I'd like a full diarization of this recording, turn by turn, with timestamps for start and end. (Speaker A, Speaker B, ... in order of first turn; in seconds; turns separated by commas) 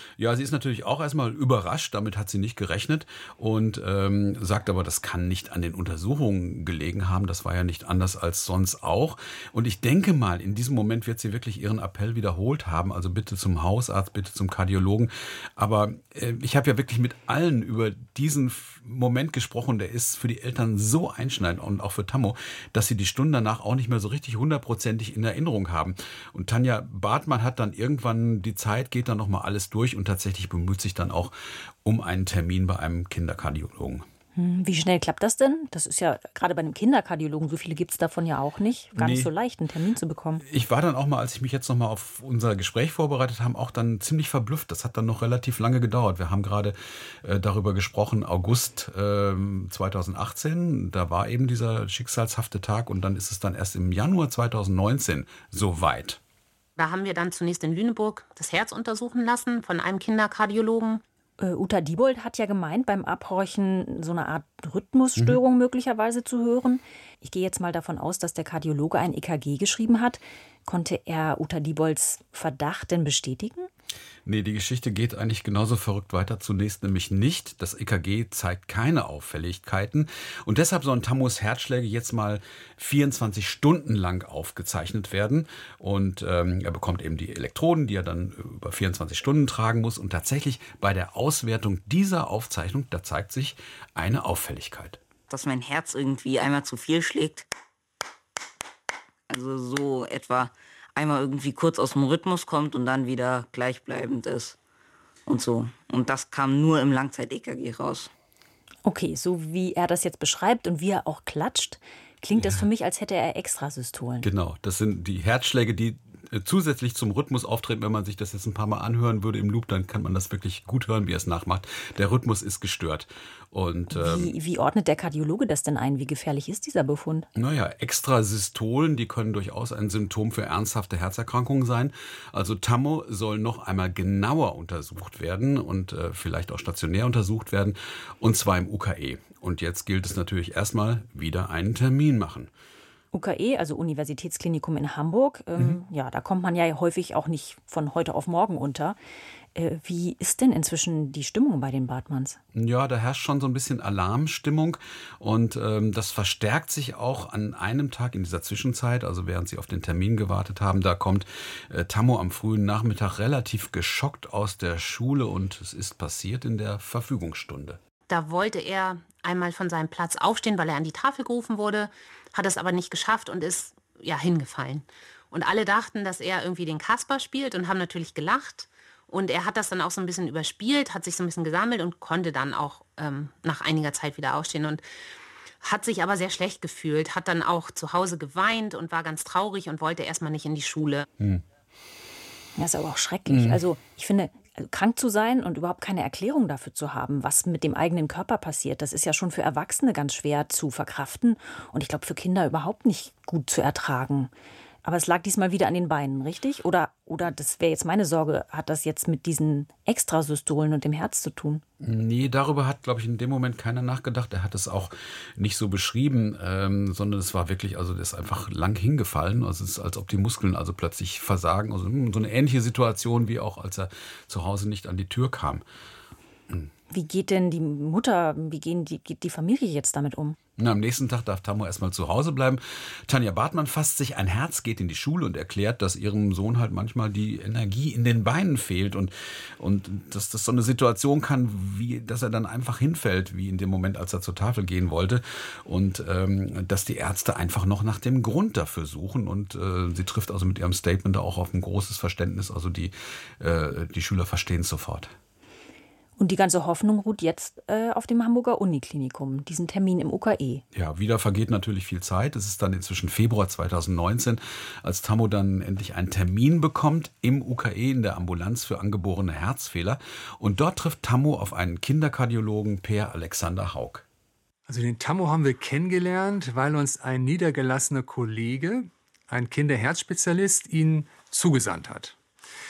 Speaker A: 0.2-31.3, Speaker A: 31.8-34.0, Speaker B: 34.4-40.4, Speaker A: 39.0-39.3, Speaker A: 40.4-56.2, Speaker C: 56.8-61.0, Speaker B: 61.4-73.7, Speaker A: 74.3-95.0, Speaker D: 95.3-97.5, Speaker D: 99.3-104.6, Speaker D: 105.3-108.1, Speaker B: 108.8-114.3, Speaker A: 112.4-112.7, Speaker A: 114.2-124.3, Speaker B: 123.9-127.3, Speaker A: 127.3-142.5, Speaker B: 143.1-149.0, Speaker B: 149.6-152.4, Speaker A: 152.5-167.8, Speaker C: 168.1-184.8, Speaker C: 185.6-191.1, Speaker B: 192.6-204.3, Speaker A: 193.3-193.6, Speaker B: 204.8-211.6, Speaker A: 211.8-225.6, Speaker B: 226.9-230.4, Speaker A: 230.6-255.2, Speaker B: 256.2-260.6, Speaker A: 260.7-274.1, Speaker E: 274.7-282.2